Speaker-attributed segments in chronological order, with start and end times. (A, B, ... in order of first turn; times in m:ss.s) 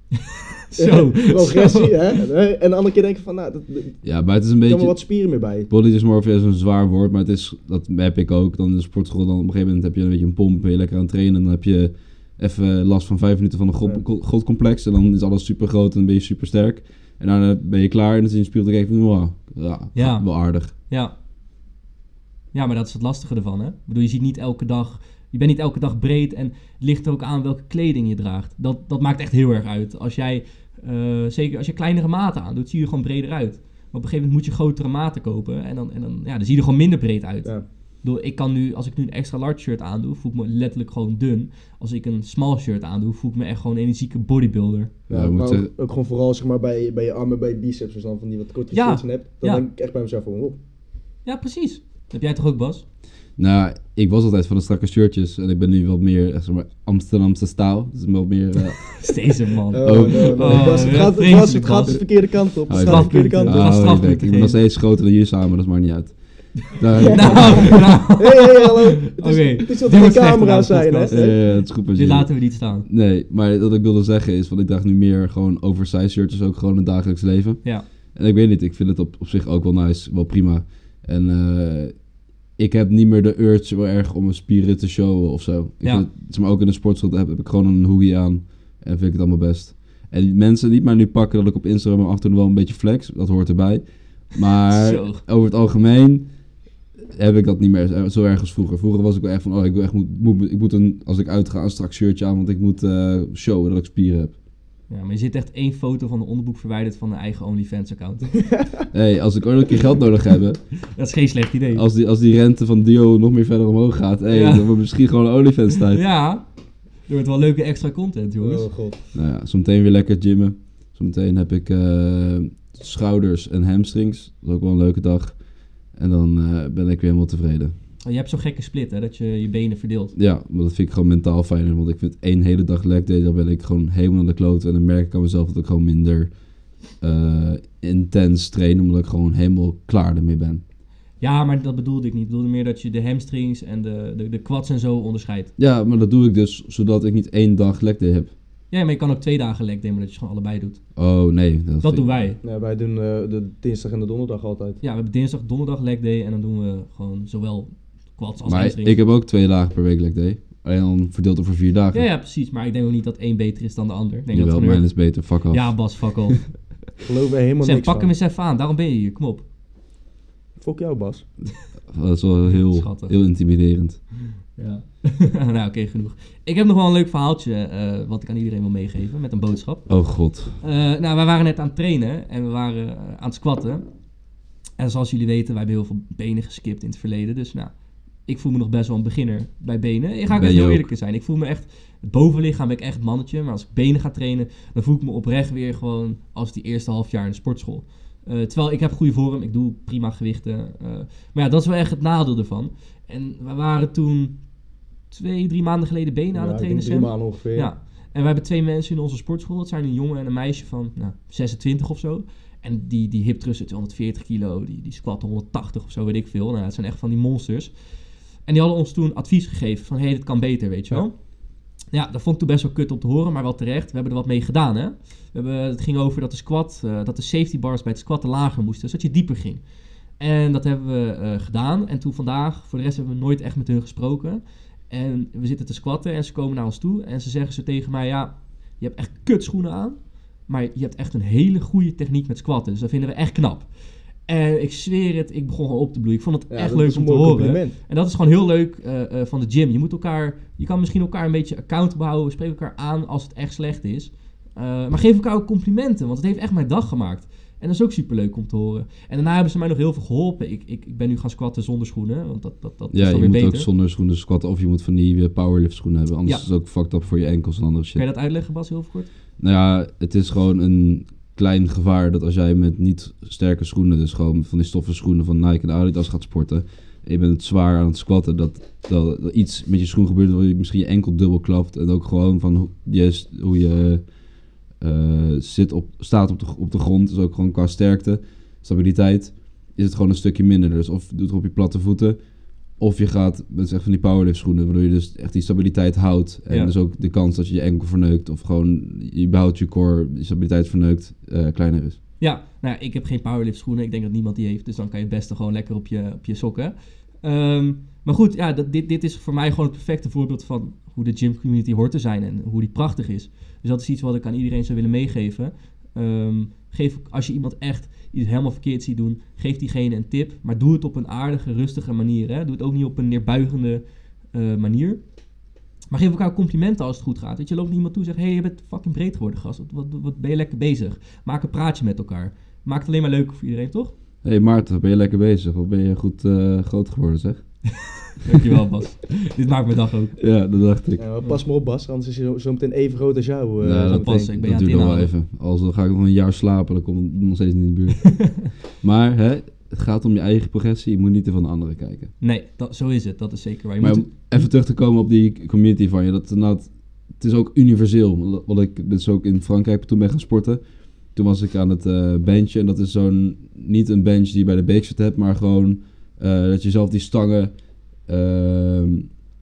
0:00.3-0:02.1 A
0:00.8-0:04.0 B
0:04.0-0:05.0 C
0:04.6-0:05.7 B
0:05.7-0:20.7 C
0:19.9-0:21.1 A
0:22.5-0:37.5 A
0:38.0-0:44.9 A
0:45.1-0:50.6 B
0:45.1-0:45.7 C
0:48.7-0:49.6 A
0:51.2-0:52.8 A
0:53.4-0:59.0 C
0:58.8-1:02.0 A
0:59.7-1:03.7 B
0:59.8-1:01.1 C
1:02.7-1:04.6 A
1:02.7-1:08.0 C
1:07.0-1:11.4 B
1:07.1-1:12.9 A
1:11.1-1:21.9 C
1:22.6-1:36.3 C
1:34.6-1:35.2 A
1:37.2-1:44.4 C
1:44.9-1:48.3 A
1:48.5-1:48.9 B
1:48.9-1:50.6 C
1:50.9-1:51.8 A
1:51.7-1:56.0 C
1:54.3-1:54.8 A
1:55.8-1:56.5 A
1:57.1-1:58.7 A
1:58.4-1:59.0 B
1:59.1-2:05.4 C
2:05.9-2:07.7 C
2:08.0-2:10.1 A
2:10.2-2:16.3 C
2:17.0-2:20.6 C
2:21.2-2:25.5 A
2:25.6-2:28.3 C
2:28.7-2:30.8 A
2:31.0-2:32.1 C
2:31.8-2:32.4 A
2:32.4-2:34.8 B
2:34.8-2:39.0 A
2:38.4-2:42.0 C
2:41.9-2:46.4 A
2:44.3-2:45.9 C
2:47.0-2:48.1 B
2:47.6-2:49.4 A
2:50.6-2:51.3 B
2:51.9-2:54.0 C
2:52.7-2:53.2 A
2:54.6-2:59.9 A
2:59.9-3:00.6 C
3:00.6-3:03.8 A
3:04.8-3:07.7 A
3:08.3-3:24.4 A
3:10.3-3:10.9 C
3:25.1-3:37.7 A
3:26.3-3:27.7 B
3:38.4-3:41.2 A
3:41.9-3:49.6 A
3:50.2-4:03.7 A
4:04.3-4:23.7 A
4:06.5-4:07.8 B
4:22.9-4:28.0 C
4:28.0-4:29.1 A
4:29.4-4:44.0 C
4:44.8-4:52.2 C
4:52.8-5:02.0 C
5:02.2-5:25.0 A
5:25.9-5:34.0 A
5:34.2-5:37.6 C
5:38.2-5:40.2 A
5:40.2-5:41.0 C
5:41.0-5:44.4 B
5:43.6-5:52.1 C
5:43.8-5:45.1 A
5:48.2-5:48.4 A
5:52.2-5:54.5 A
5:53.8-6:00.6 C
6:01.1-6:07.5 C
6:08.1-6:09.1 C